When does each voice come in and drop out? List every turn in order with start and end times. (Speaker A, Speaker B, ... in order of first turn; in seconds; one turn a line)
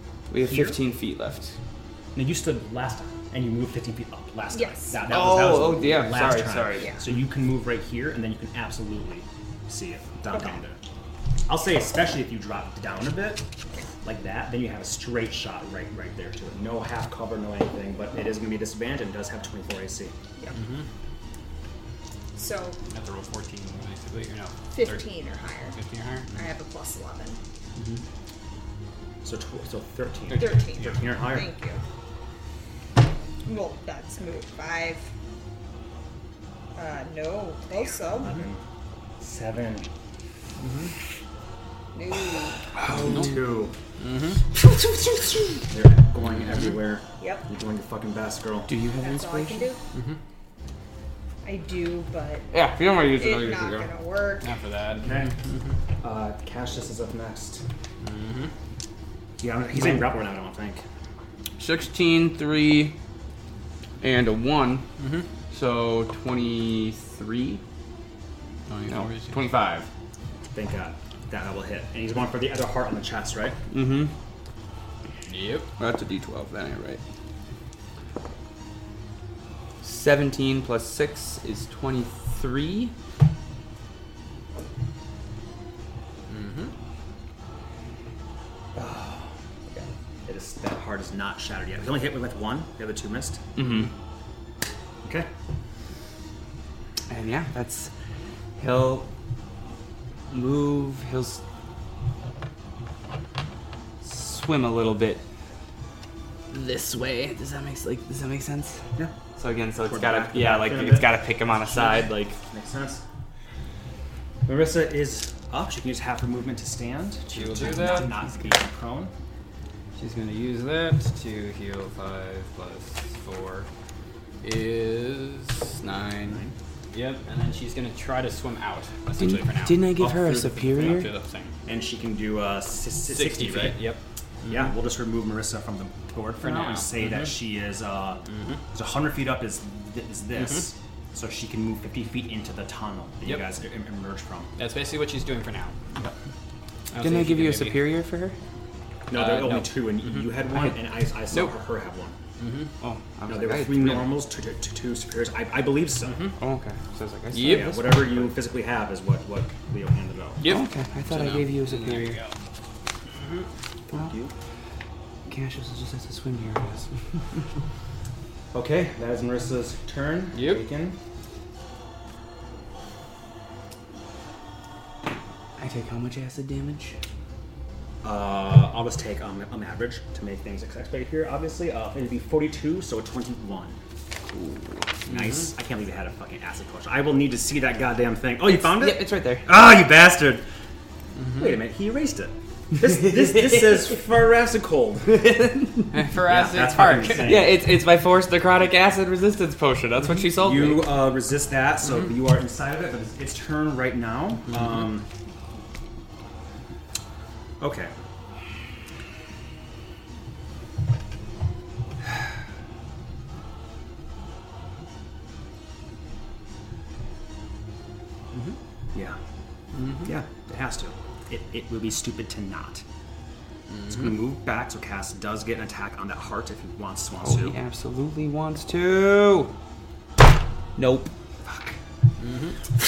Speaker A: 0.3-1.6
Speaker B: 0.4-0.8
Speaker B: 2.1-10.8
Speaker C: 4.5-5.0
Speaker A: 5.0-7.0
Speaker C: 10.3-10.6
Speaker B: 11.5-13.4
Speaker B: 14.0-20.1
Speaker D: 20.5-20.9
Speaker C: 22.4-22.8
Speaker D: 22.9-25.1
Speaker C: 24.7-25.8
Speaker D: 25.7-26.4
Speaker C: 26.3-27.4
Speaker D: 27.8-28.0
Speaker B: 29.2-31.5
Speaker D: 30.3-31.2
Speaker C: 30.3-31.8
Speaker C: 33.5-35.0
Speaker C: 36.8-38.3
Speaker B: 38.2-38.6
Speaker B: 39.2-39.9
Speaker D: 40.6-40.9
Speaker C: 41.9-42.7
Speaker A: 42.8-43.4
Speaker B: 42.8-43.7
Speaker D: 43.1-43.3
Speaker D: 44.0-44.4
Speaker A: 44.5-45.7
Speaker B: 45.7-48.7
Speaker D: 46.3-46.8
Speaker C: 47.2-47.5
Speaker A: 48.7-49.7
Speaker C: 49.0-49.8
Speaker C: 51.4-54.5
Speaker A: 52.5-53.9
Speaker D: 54.4-55.7
Speaker B: 55.0-55.3
Speaker B: 56.0-57.6
Speaker D: 58.0-58.5
Speaker B: 59.4-60.8
Speaker A: 61.6-63.0
Speaker A: 64.0-64.9
Speaker D: 65.0-65.3
Speaker A: 65.5-67.6
Speaker D: 68.7-69.4
Speaker A: 68.9-69.9
Speaker B: 70.5-73.6
Speaker A: 73.7-74.1
Speaker D: 75.3-75.7
Speaker A: 75.8-77.0
Speaker A: 79.8-82.9
Speaker D: 86.3-86.7
Speaker B: 88.7-93.9
Speaker A: 93.5-93.9
Speaker A: 97.1-97.9
Speaker A: 98.6-99.1
Speaker A: 100.3-101.4
Speaker A: 104.0-105.2
Speaker A: 106.5-108.8
Speaker A: 109.3-112.4
Speaker B: 109.8-113.0
Speaker B: 114.5-119.1
Speaker D: 117.3-118.1
Speaker A: 117.6-118.2
Speaker D: 120.0-123.7
Speaker D: 124.4-131.6
Speaker B: 126.3-126.5
Speaker A: 129.2-131.1
Speaker B: 130.0-131.0
Speaker B: 131.7-133.8
Speaker D: 133.1-134.7
Speaker B: 134.4-144.5
Speaker D: 136.4-137.3
Speaker D: 138.3-138.6
Speaker D: 140.4-140.7
Speaker D: 144.6-145.8
Speaker D: 146.9-147.8
Speaker A: 147.0-148.4
Speaker B: 149.1-152.2
Speaker D: 149.1-150.3
Speaker D: 152.4-152.7
Speaker A: 152.8-154.1
Speaker B: 153.3-156.3
Speaker D: 156.1-156.4
Speaker A: 156.4-158.3
Speaker D: 157.3-157.9
Speaker B: 157.4-160.4
Speaker D: 160.4-162.3
Speaker A: 160.4-162.2
Speaker D: 163.2-163.4
Speaker B: 163.9-164.3
Speaker A: 165.3-166.9
Speaker B: 168.5-171.0
Speaker D: 170.3-170.6
Speaker A: 175.6-176.9
Speaker B: 178.0-183.8
Speaker A: 184.3-184.9
Speaker B: 185.1-190.4
Speaker A: 188.4-189.5
Speaker D: 191.2-191.5
Speaker B: 191.3-195.2
Speaker A: 192.9-193.8
Speaker A: 195.1-196.0
Speaker D: 195.9-197.5
Speaker B: 196.3-197.6
Speaker A: 197.2-201.0
Speaker B: 200.3-205.1
Speaker B: 207.6-207.9
Speaker D: 219.7-220.1
Speaker B: 220.0-222.8
Speaker D: 223.7-224.1
Speaker B: 223.9-227.6
Speaker A: 227.2-229.5
Speaker A: 230.8-231.1
Speaker B: 231.4-231.7
Speaker D: 232.2-232.6